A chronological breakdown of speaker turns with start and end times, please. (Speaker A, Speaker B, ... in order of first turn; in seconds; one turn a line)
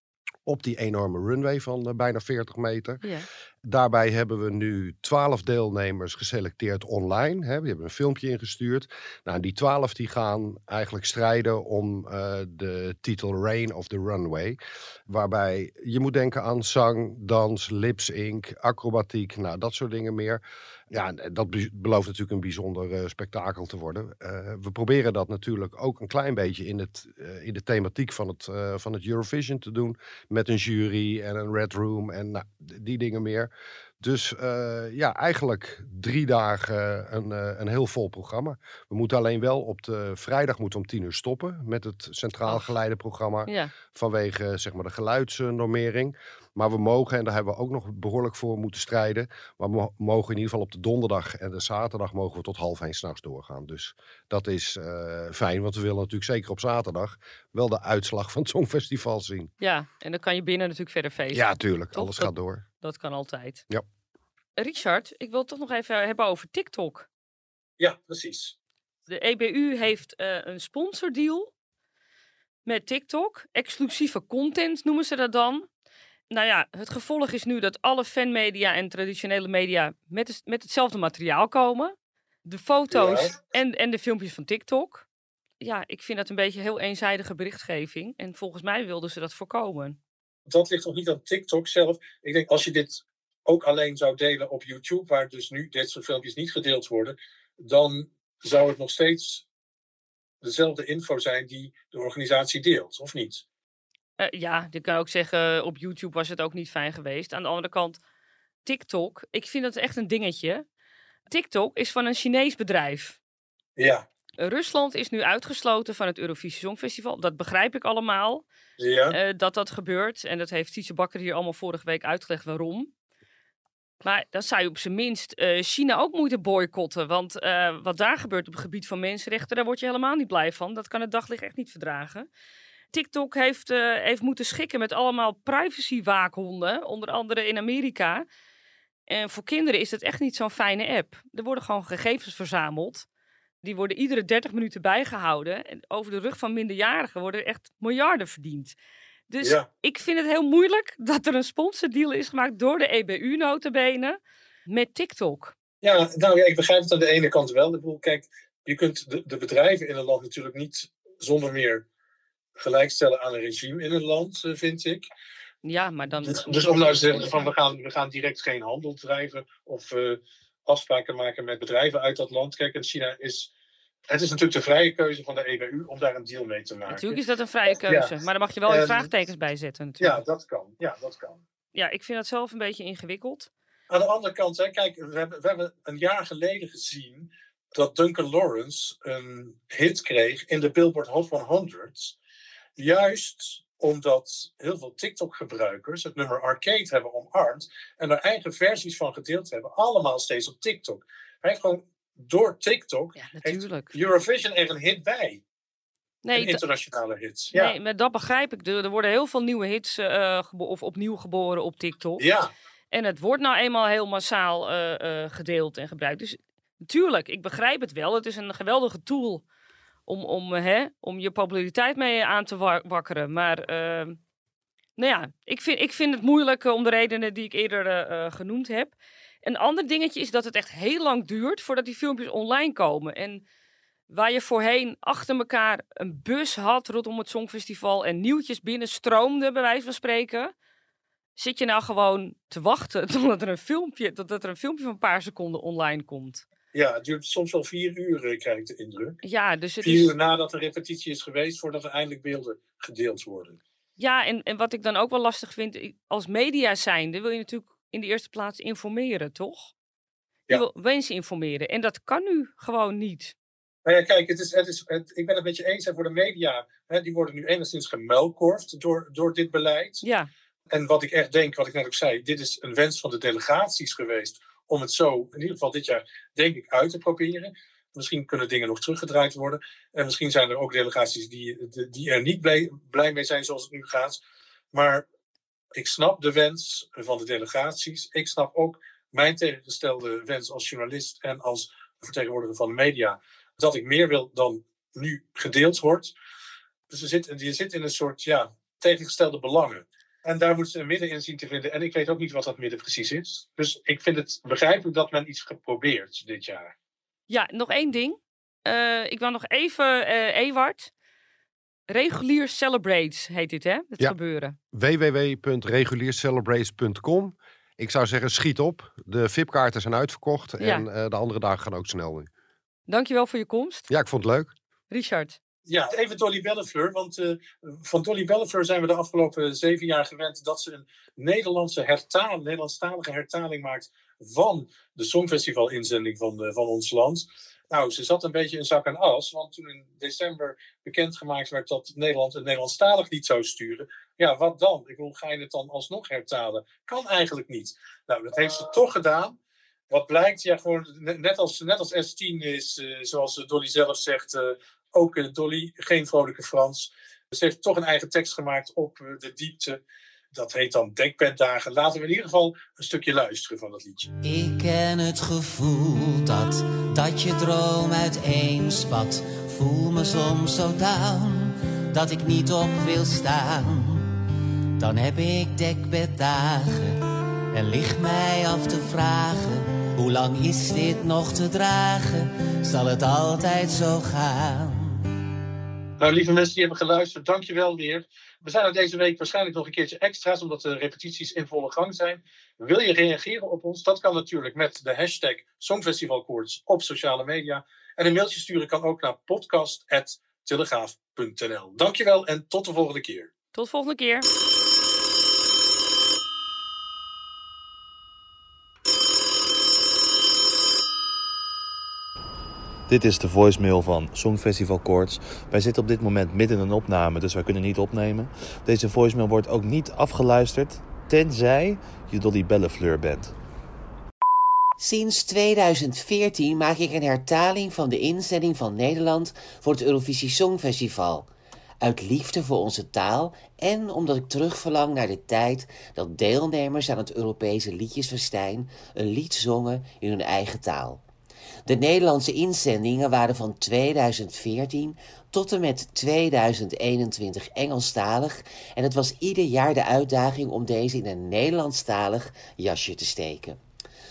Speaker A: 0.5-3.0
Speaker B: 3.0-3.3
Speaker A: 3.6-59.5
Speaker B: 42.5-42.7
Speaker B: 43.5-43.7
Speaker B: 59.6-63.6
Speaker A: 61.3-62.6
Speaker B: 64.6-67.1
Speaker C: 67.8-68.5
Speaker B: 69.1-71.5
Speaker B: 72.7-75.7
Speaker B: 76.3-85.0
Speaker C: 82.9-83.3
Speaker B: 85.6-90.0
Speaker C: 90.5-99.4
Speaker C: 100.4-103.4
Speaker B: 104.2-108.0
Speaker B: 108.6-110.6
Speaker B: 111.3-113.2
Speaker C: 113.8-114.0
Speaker B: 114.4-118.4
Speaker C: 118.8-119.2
Speaker B: 119.1-122.9
Speaker B: 124.0-132.3
Speaker B: 132.9-138.2
Speaker B: 139.1-143.1
Speaker B: 143.6-148.7
Speaker B: 149.3-155.5
Speaker C: 155.8-161.8
Speaker C: 162.6-165.1
Speaker B: 165.6-167.5
Speaker C: 166.2-173.5
Speaker C: 174.1-177.2
Speaker B: 176.9-180.2
Speaker C: 177.8-178.1
Speaker C: 178.7-179.1
Speaker C: 180.0-181.4
Speaker B: 181.7-183.5
Speaker C: 183.9-192.2
Speaker C: 192.8-205.4
Speaker B: 203.2-203.9
Speaker B: 206.2-206.6
Speaker C: 206.3-207.7
Speaker B: 207.5-212.2
Speaker C: 212.2-212.5
Speaker B: 212.9-219.4
Speaker B: 220.1-224.2
Speaker B: 225.0-233.4
Speaker B: 234.1-240.5
Speaker B: 241.3-246.4
Speaker C: 246.7-249.2
Speaker B: 249.2-250.1
Speaker C: 249.8-253.6
Speaker B: 254.0-259.7
Speaker B: 260.5-263.3
Speaker C: 263.8-270.0
Speaker B: 270.0-270.3
Speaker C: 270.7-284.2
Speaker C: 284.7-285.1
Speaker C: 285.7-296.1
Speaker C: 296.9-306.7
Speaker B: 307.3-310.9
Speaker B: 311.9-314.6
Speaker A: 314.7-322.3
Speaker B: 320.6-320.9
Speaker B: 322.9-323.9
Speaker A: 323.9-324.5
Speaker B: 324.9-325.4
Speaker C: 325.6-349.4
Speaker C: 349.9-359.8
Speaker C: 360.3-364.1
Speaker D: 364.2-374.1
Speaker D: 374.8-376.9
Speaker D: 377.5-385.0
Speaker C: 386.0-403.3
Speaker B: 403.5-404.3
Speaker E: 412.9-423.3
Speaker D: 424.8-431.3
Speaker D: 431.8-441.0
Speaker D: 441.6-453.6